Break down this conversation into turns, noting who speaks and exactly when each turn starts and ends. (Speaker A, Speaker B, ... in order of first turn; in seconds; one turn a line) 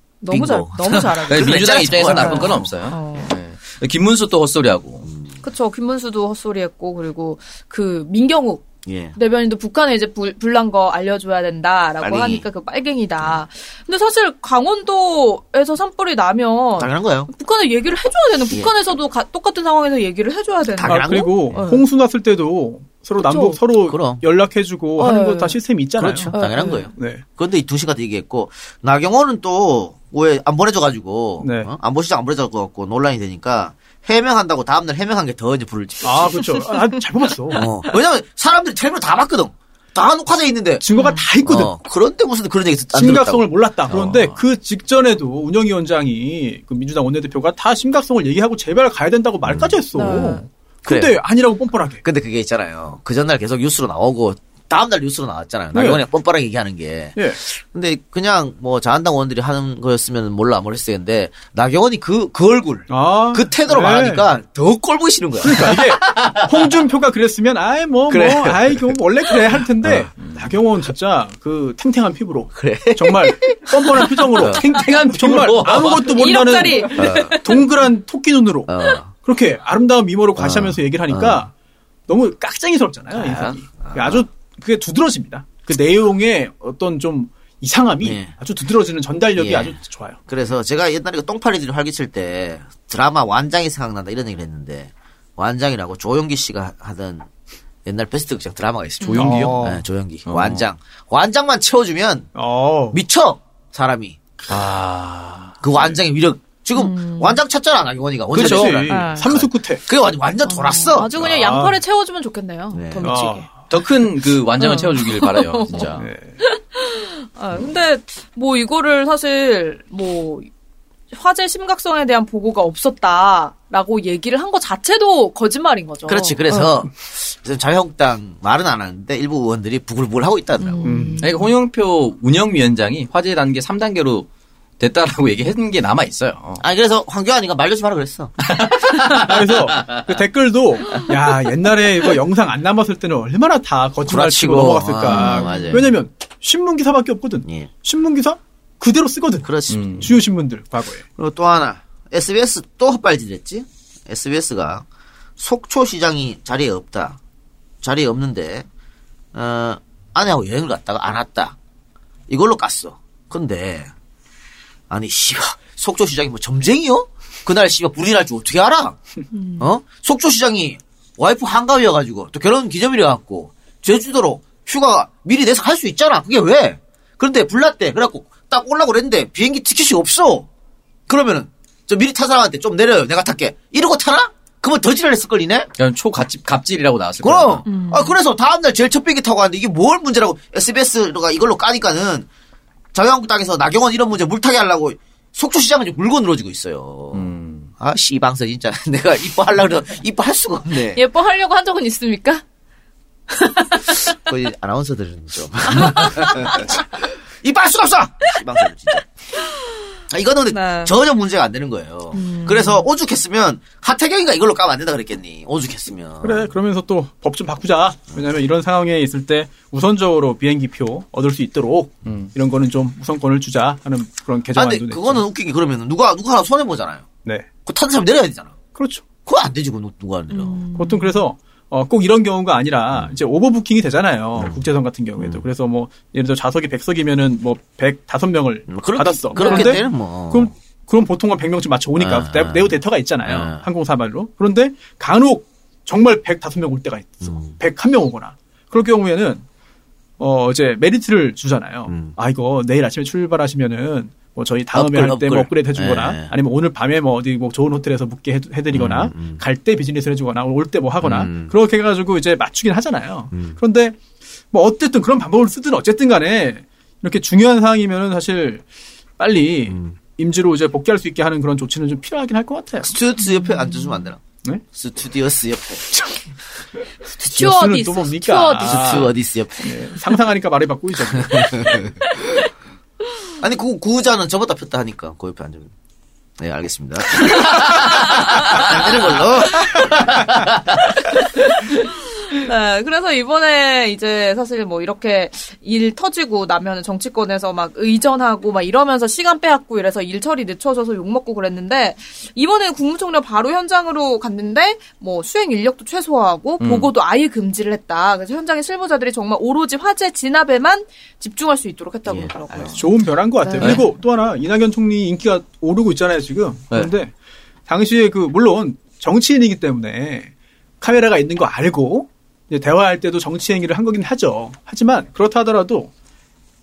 Speaker A: 0.2-3.3
Speaker B: 0.3-2.7
Speaker C: 1.3-5.1
Speaker B: 5.0-5.4
Speaker A: 5.4-21.8
Speaker B: 8.8-9.1
Speaker B: 12.0-12.4
Speaker B: 16.8-17.3
Speaker B: 20.7-21.6
Speaker D: 20.8-26.3
Speaker A: 23.2-23.6
Speaker B: 23.9-24.2
Speaker A: 25.0-25.6
Speaker B: 26.0-36.5
Speaker A: 26.3-26.9
Speaker D: 26.9-27.2
Speaker D: 31.4-31.7
Speaker D: 36.0-37.7
Speaker B: 37.5-40.8
Speaker D: 40.8-41.7
Speaker A: 40.9-41.2
Speaker B: 41.4-44.3
Speaker D: 42.9-52.0
Speaker B: 49.4-50.2
Speaker A: 49.9-50.4
Speaker B: 50.8-51.2
Speaker B: 52.0-65.8
Speaker D: 55.7-56.0
Speaker D: 62.9-64.2
Speaker D: 65.4-81.5
Speaker C: 66.0-66.4
Speaker C: 68.1-68.8
Speaker B: 69.8-70.1
Speaker C: 70.2-70.5
Speaker B: 72.5-74.6
Speaker C: 74.4-76.2
Speaker A: 76.1-77.7
Speaker B: 77.0-77.4
Speaker B: 78.7-79.1
Speaker B: 80.3-81.5
Speaker D: 82.1-90.2
Speaker B: 83.1-84.2
Speaker B: 88.0-88.3
Speaker B: 89.3-97.3
Speaker B: 97.8-102.3
Speaker A: 99.0-99.4
Speaker C: 99.0-99.5
Speaker D: 99.2-99.8
Speaker C: 100.2-100.7
Speaker D: 102.3-103.0
Speaker B: 102.9-104.6
Speaker C: 104.5-105.6
Speaker B: 105.6-111.3
Speaker A: 106.7-107.4
Speaker C: 108.3-108.8
Speaker D: 108.3-109.8
Speaker A: 108.8-109.3
Speaker A: 110.4-113.5
Speaker D: 111.2-111.8
Speaker B: 112.7-113.1
Speaker D: 113.0-113.5
Speaker C: 113.7-116.0
Speaker A: 114.6-120.5
Speaker D: 116.0-116.3
Speaker A: 121.1-126.6
Speaker B: 126.1-130.9
Speaker A: 130.6-131.4
Speaker D: 130.8-131.2
Speaker C: 131.2-134.3
Speaker C: 134.8-136.6
Speaker B: 136.6-138.4
Speaker C: 138.5-140.0
Speaker D: 139.2-151.0
Speaker B: 144.0-145.9
Speaker A: 145.1-145.8
Speaker B: 147.4-147.7
Speaker B: 149.4-150.2
Speaker C: 149.7-150.1
Speaker B: 151.2-154.8
Speaker B: 155.4-157.2
Speaker B: 157.8-158.7
Speaker B: 159.3-161.5
Speaker B: 162.3-163.9
Speaker B: 164.9-169.0
Speaker A: 169.3-169.7
Speaker B: 169.6-180.5
Speaker B: 181.1-185.7
Speaker C: 185.8-187.6
Speaker B: 187.2-192.3
Speaker A: 187.7-188.2
Speaker B: 192.9-201.0
Speaker C: 197.1-197.7
Speaker A: 200.9-202.4
Speaker A: 203.3-204.1
Speaker B: 204.1-209.1
Speaker A: 205.8-206.7
Speaker B: 210.1-216.5
Speaker A: 210.5-210.9
Speaker A: 212.1-212.9
Speaker D: 216.2-225.2
Speaker C: 222.1-222.3
Speaker B: 224.5-227.1
Speaker B: 227.6-228.6
Speaker D: 228.7-229.0
Speaker B: 229.2-230.6
Speaker A: 230.3-231.2
Speaker D: 230.7-249.4
Speaker B: 232.9-233.2
Speaker B: 234.3-235.4
Speaker B: 238.7-240.5
Speaker A: 239.3-239.8
Speaker B: 241.9-243.6
Speaker B: 247.2-247.6
Speaker D: 250.2-264.0
Speaker B: 251.9-252.2
Speaker B: 254.7-256.3
Speaker B: 258.7-259.4
Speaker B: 261.0-261.5
Speaker B: 263.3-263.6
Speaker D: 264.5-268.6
Speaker D: 269.2-272.9
Speaker B: 269.7-269.9
Speaker B: 272.8-274.2
Speaker A: 273.2-274.1
Speaker B: 274.7-275.9
Speaker A: 277.1-279.1
Speaker D: 277.3-281.9
Speaker B: 278.6-279.7
Speaker B: 281.1-281.8
Speaker B: 283.4-285.7
Speaker B: 286.4-290.6
Speaker A: 292.3-313.9
Speaker C: 306.6-306.9
Speaker B: 312.1-312.7
Speaker D: 312.7-317.1
Speaker D: 317.7-325.9